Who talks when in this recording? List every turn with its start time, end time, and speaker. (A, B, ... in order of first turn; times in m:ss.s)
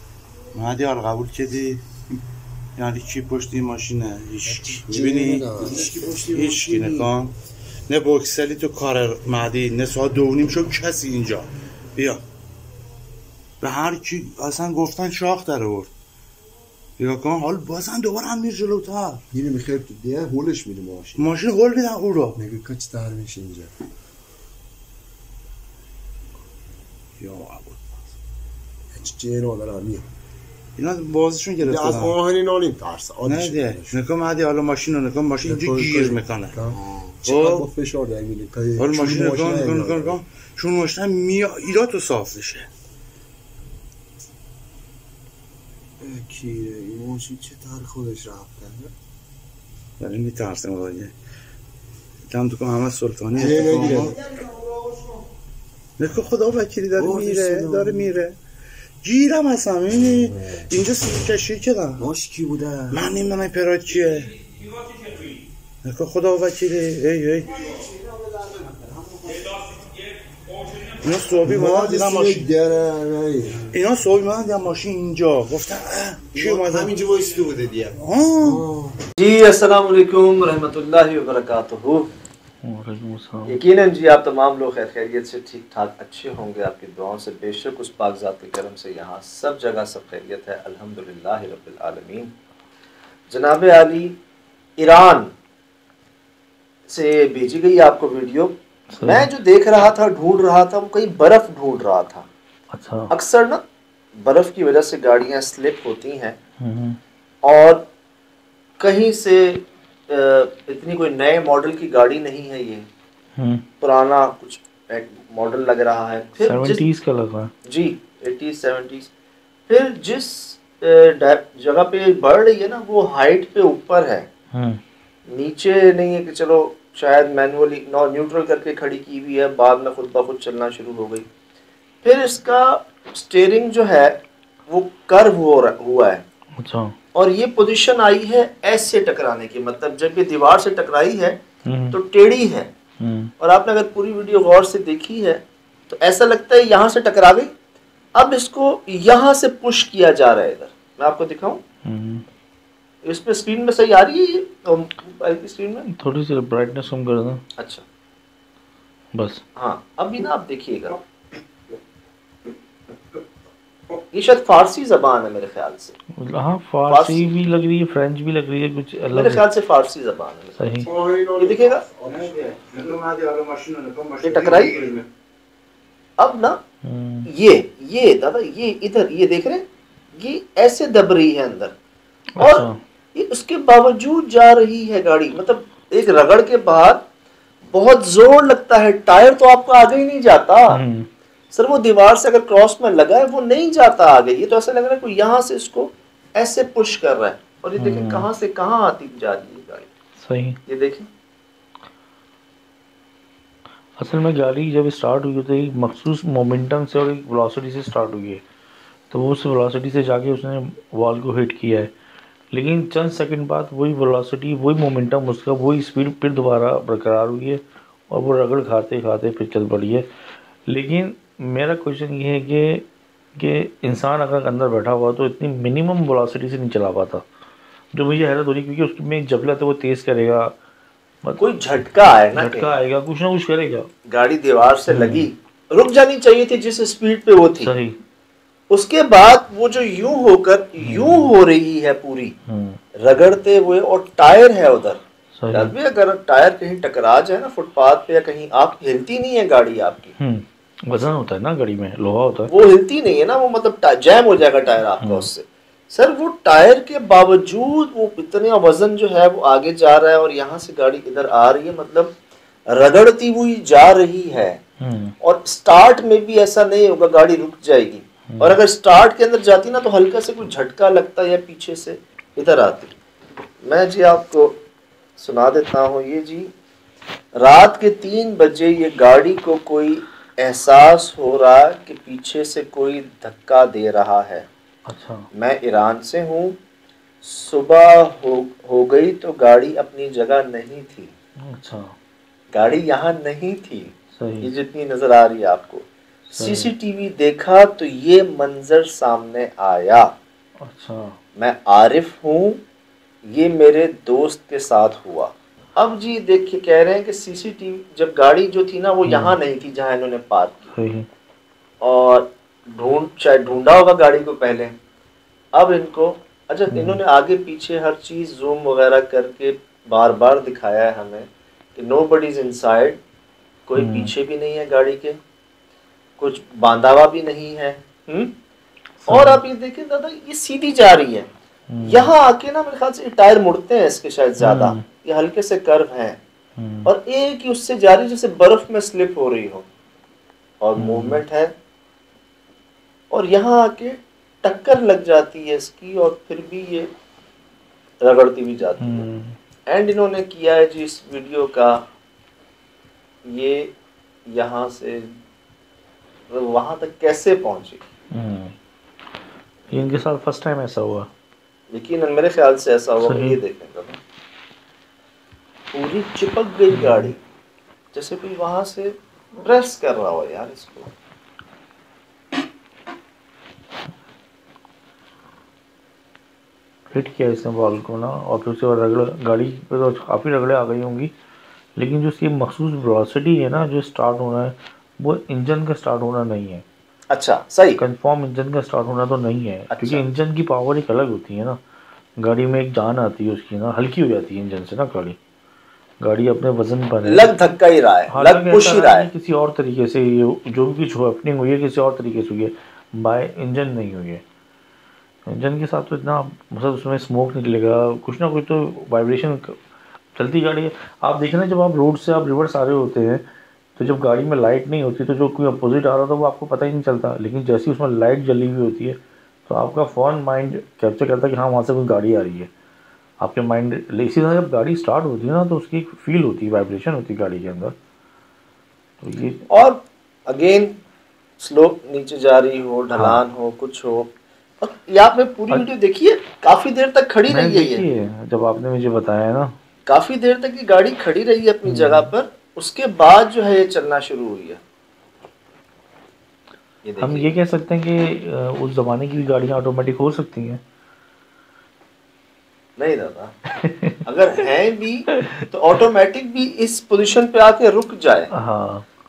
0:00.5-0:02.0 A
0:02.8-0:07.4 A
0:04.4-0:07.1 B
0:07.9-0:12.2 A
0:13.6-0:15.9 A
0:17.0-0:19.2 A
0:19.3-0:21.2 B
0:21.2-0:22.4 A
0:22.4-0:23.7 B
0:27.2-0:27.8 A
0:28.9-0:30.1 B
0:30.8-0:32.2 A
0:31.6-0:34.0 B
0:33.3-0:37.7 A
0:35.4-0:40.2 B
0:38.8-0:42.7 A
0:46.0-0:48.9 B
0:50.0-0:51.1 A
0:52.3-0:54.2 A
0:53.3-0:55.0 B
0:56.0-0:58.4 A
0:56.9-0:58.2 B
0:59.0-1:02.1 A
1:02.0-1:03.1 B
1:02.9-1:04.4 A
1:05.8-1:07.8 A
1:07.7-1:09.6 B
1:10.9-1:12.5 A
1:11.4-1:13.7 B
1:13.7-1:17.0 A
1:16.3-1:19.0 B
1:18.0-1:18.6 A
1:19.2-1:22.1 C
1:22.6-1:23.6 D
1:23.5-1:32.3 C
1:33.3-1:34.2 C
1:34.8-1:35.3 C
1:36.9-1:42.3 C
1:38.9-1:39.3 D
1:42.7-1:43.1 D
1:43.1-1:43.6 C
1:44.2-1:46.4 C
1:46.6-1:47.0 D
1:47.4-1:47.8 C
1:48.8-1:52.9 C
1:53.4-1:53.6 D
1:53.8-1:56.8 C
1:56.4-1:57.5 D
1:57.7-1:59.1 C
1:59.7-2:04.3 C
2:04.5-2:04.8 D
2:05.3-2:11.2 C
2:12.0-2:16.2 C
2:16.6-2:16.9 D
2:17.2-2:21.4 C
2:21.7-2:22.0 D
2:22.0-2:22.7 C
2:23.0-2:23.3 D
2:23.4-2:27.5 C
2:28.2-2:31.6 C
2:31.8-2:32.2 D
2:33.0-2:35.8 C
2:35.8-2:37.4 D
2:37.6-2:37.8 C
2:39.1-2:39.4 D
2:39.6-2:41.0 C
2:44.1-2:45.9 C
2:46.2-2:49.5 D
2:46.9-2:47.2 C
2:49.2-2:50.6 C
2:50.6-2:50.9 D
2:50.8-2:52.8 B
2:51.4-2:51.8 C
2:52.1-2:55.1 A
2:54.2-2:54.8 C
2:56.2-2:56.6 C
2:56.8-2:57.3 D
2:57.3-2:59.6 C
3:00.2-3:01.7 C
3:02.4-3:02.8 D
3:02.4-3:07.0 C
3:07.7-3:10.8 C
3:10.7-3:11.1 D
3:11.5-3:19.9 C
3:17.8-3:18.3 D
3:20.2-3:20.6 D
3:20.7-3:21.1 C
3:24.0-3:28.4 D
3:29.1-3:31.9 D
3:32.5-3:40.1 D
3:40.7-3:42.9 D
3:43.4-3:47.3 D
3:47.9-3:50.6 D
3:51.4-3:52.7 C
3:52.3-3:53.9 D
3:54.1-3:57.7 C
3:54.9-3:55.3 D
3:57.6-3:58.0 D
3:58.7-4:02.3 C
4:00.8-4:01.3 D
4:02.5-4:02.8 D
4:03.0-4:05.0 C
4:05.4-4:05.8 D
4:05.6-4:10.1 C
4:10.2-4:12.5 D
4:12.5-4:22.1 C
4:15.0-4:15.3 D
4:22.7-4:24.6 C
4:24.8-4:25.2 D
4:25.2-4:32.9 C
4:28.3-4:28.6 D
4:33.6-4:34.6 C
4:35.2-4:36.5 C
4:37.4-4:44.5 C
4:44.9-4:45.3 D
4:45.4-4:46.6 C
4:47.2-4:51.1 C
4:51.4-4:51.9 D
4:52.5-4:53.9 C
4:54.1-4:54.5 D
4:54.4-4:55.8 C
4:56.3-4:56.7 D
4:56.4-5:00.1 C
5:00.6-5:01.2 D
5:01.4-5:02.6 C
5:03.3-5:10.6 C
5:09.1-5:09.4 D
5:10.7-5:11.1 D
5:11.8-5:14.7 C
5:15.6-5:23.0 C
5:16.7-5:17.0 D
5:23.7-5:25.2 C
5:23.8-5:24.1 D
5:26.2-5:28.3 C
5:29.1-5:29.4 D
5:29.2-5:31.3 C
5:31.7-5:32.1 D
5:31.9-5:36.2 C
5:34.4-5:34.8 D
5:36.6-5:36.9 D
5:36.9-5:39.6 C
5:40.6-5:41.5 C
5:40.8-5:41.2 D
5:43.1-5:46.9 C
5:48.0-5:48.8 C
5:48.8-5:49.4 D
5:49.7-5:51.8 C
5:53.3-5:53.7 C
5:54.3-5:55.1 C
5:56.3-5:57.8 C
5:58.1-5:58.5 D
5:59.7-6:01.1 D
6:01.7-6:04.0 C
6:03.0-6:03.4 D
6:05.8-6:07.1 C
6:06.7-6:07.1 D
6:07.9-6:10.9 C
6:16.9-6:21.1 D
6:21.8-6:26.6 D
6:27.1-6:27.8 C
6:27.8-6:31.6 D
6:32.2-6:35.2 D
6:36.0-6:37.3 D
6:37.1-6:39.0 C
6:38.1-6:44.2 D
6:45.3-6:49.6 D
6:50.2-6:53.2 D
6:53.8-7:02.5 D
7:03.2-7:07.8 D
7:09.0-7:09.4 D
7:09.5-7:10.8 C
7:11.4-7:14.1 C
7:13.0-7:13.2 D
7:14.6-7:17.8 C
7:17.3-7:19.6 D
7:19.9-7:24.6 C
7:21.6-7:22.1 D
7:26.9-7:27.3 C
7:27.0-7:30.6 D
7:32.8-7:33.3 C
7:33.6-7:34.0 D
7:34.1-7:35.0 C
7:35.2-7:35.4 D
7:35.6-7:38.3 C
7:38.3-7:38.8 D